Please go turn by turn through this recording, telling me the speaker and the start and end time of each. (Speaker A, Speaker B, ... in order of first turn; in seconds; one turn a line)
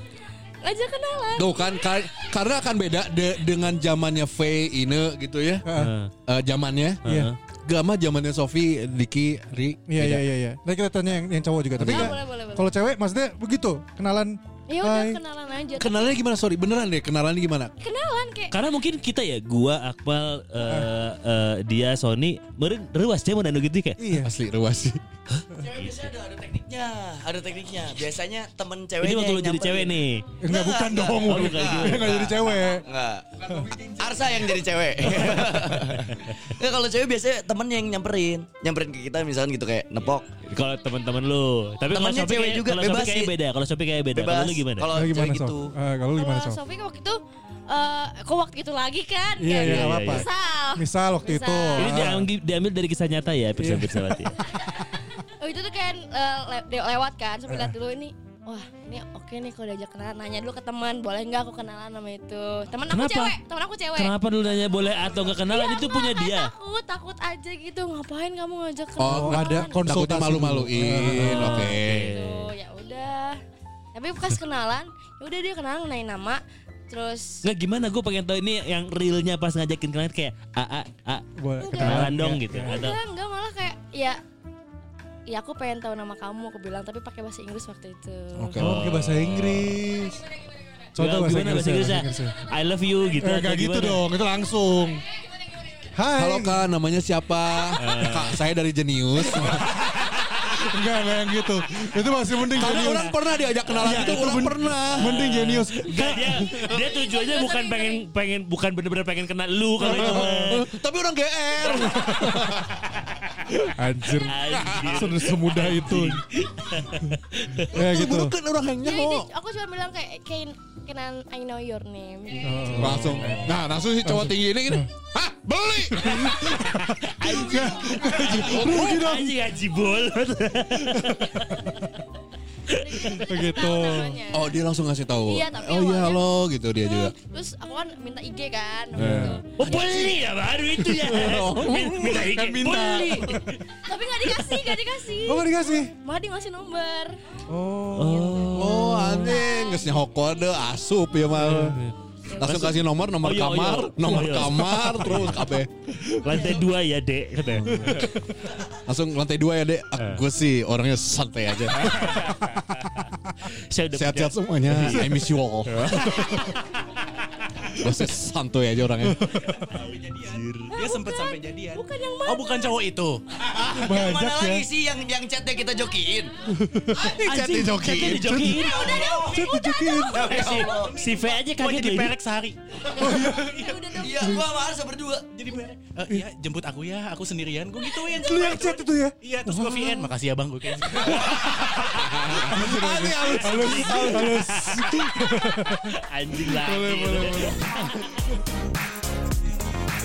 Speaker A: 0.6-2.3
Speaker B: 1.4-5.7
Speaker C: 5.6-5.9
Speaker D: 5.7-6.1
Speaker B: 6.3-7.0
Speaker D: 7.0-7.3
Speaker C: 7.1-7.3
Speaker B: 7.7-10.2
Speaker C: 9.9-15.2
Speaker B: 11.8-12.1
Speaker A: 11.8-12.7
Speaker A: 14.7-16.2
Speaker B: 15.8-17.7
Speaker A: 17.8-18.5
Speaker D: 18.5-24.0
Speaker C: 20.7-20.9
Speaker C: 24.0-24.3
Speaker B: 24.2-25.0
Speaker D: 25.3-26.1
Speaker E: 25.6-29.9
Speaker D: 29.0-30.3
Speaker C: 30.4-32.9
Speaker E: 30.4-40.3
Speaker D: 31.2-32.3
Speaker D: 35.4-36.4
Speaker D: 40.5-44.9
Speaker E: 41.9-43.3
Speaker E: 44.1-45.8
Speaker C: 44.9-46.6
Speaker A: 46.1-52.0
Speaker C: 49.4-52.3
Speaker D: 49.6-50.3
Speaker D: 51.8-54.4
Speaker C: 53.6-54.1
Speaker A: 55.4-64.1
Speaker D: 62.9-63.4
Speaker D: 64.0-66.5
Speaker A: 65.2-70.0
Speaker B: 69.0-72.1
Speaker C: 69.1-71.6
Speaker D: 71.1-72.5
Speaker A: 72.0-73.4
Speaker A: 73.9-77.4
Speaker D: 77.4-83.0
Speaker C: 81.4-82.8
Speaker A: 81.6-84.2
Speaker A: 85.3-88.6
Speaker B: 88.4-88.8
Speaker D: 88.6-89.8
Speaker C: 88.6-90.2
Speaker C: 91.0-92.3
Speaker D: 91.0-94.0
Speaker C: 93.2-95.0
Speaker C: 95.9-96.6
Speaker B: 96.2-99.8
Speaker D: 97.8-98.4
Speaker C: 99.3-103.2
Speaker B: 102.5-105.5
Speaker C: 103.7-106.7
Speaker D: 105.0-110.6
Speaker A: 106.8-108.0
Speaker C: 109.8-110.6
Speaker B: 109.9-112.9
Speaker C: 111.8-112.5
Speaker D: 113.2-117.7
Speaker C: 113.8-116.2
Speaker B: 114.5-115.3
Speaker C: 117.7-118.3
Speaker B: 117.7-119.3
Speaker A: 118.8-122.8
Speaker C: 122.4-123.5
Speaker D: 122.7-123.6
Speaker B: 122.7-126.6
Speaker C: 124.1-124.9
Speaker C: 126.0-129.3
Speaker D: 126.0-131.8
Speaker B: 128.1-129.1
Speaker C: 130.9-131.7
Speaker D: 132.7-133.2
Speaker A: 132.7-134.6
Speaker C: 133.2-134.2
Speaker B: 134.3-137.1
Speaker A: 135.2-140.1
Speaker D: 139.0-143.6
Speaker C: 139.0-139.4
Speaker B: 139.1-140.1
Speaker B: 140.8-142.2
Speaker C: 141.6-143.5
Speaker A: 143.8-147.2
Speaker C: 145.3-145.9
Speaker C: 147.5-148.5
Speaker D: 148.0-149.4
Speaker A: 148.3-150.1
Speaker B: 148.6-151.8
Speaker C: 151.4-151.8
Speaker D: 151.7-155.5
Speaker A: 152.3-152.6
Speaker B: 152.4-155.7
Speaker D: 156.2-158.1
Speaker A: 156.3-156.6
Speaker B: 157.6-158.0
Speaker C: 157.8-158.1
Speaker B: 158.9-162.2
Speaker D: 161.8-165.1
Speaker B: 163.9-166.3
Speaker D: 165.7-166.4
Speaker A: 166.3-166.6
Speaker B: 167.8-169.2
Speaker C: 169.0-169.7
Speaker F: 169.8-173.2
Speaker D: 170.2-170.8
Speaker A: 170.7-172.7
Speaker E: 173.4-176.3
Speaker C: 173.8-174.7
Speaker C: 176.5-177.2
Speaker B: 176.9-178.4
Speaker D: 177.0-178.9
Speaker C: 178.1-180.4
Speaker E: 178.6-179.5
Speaker A: 178.7-180.8
Speaker E: 180.1-181.4
Speaker D: 180.2-182.1
Speaker F: 180.8-182.8
Speaker C: 183.0-184.4
Speaker A: 183.1-184.2
Speaker F: 183.4-183.8
Speaker E: 184.0-185.3
Speaker F: 185.3-191.4
Speaker A: 188.0-188.6
Speaker C: 188.1-190.1
Speaker C: 191.1-198.0
Speaker B: 191.9-194.5
Speaker D: 193.4-198.1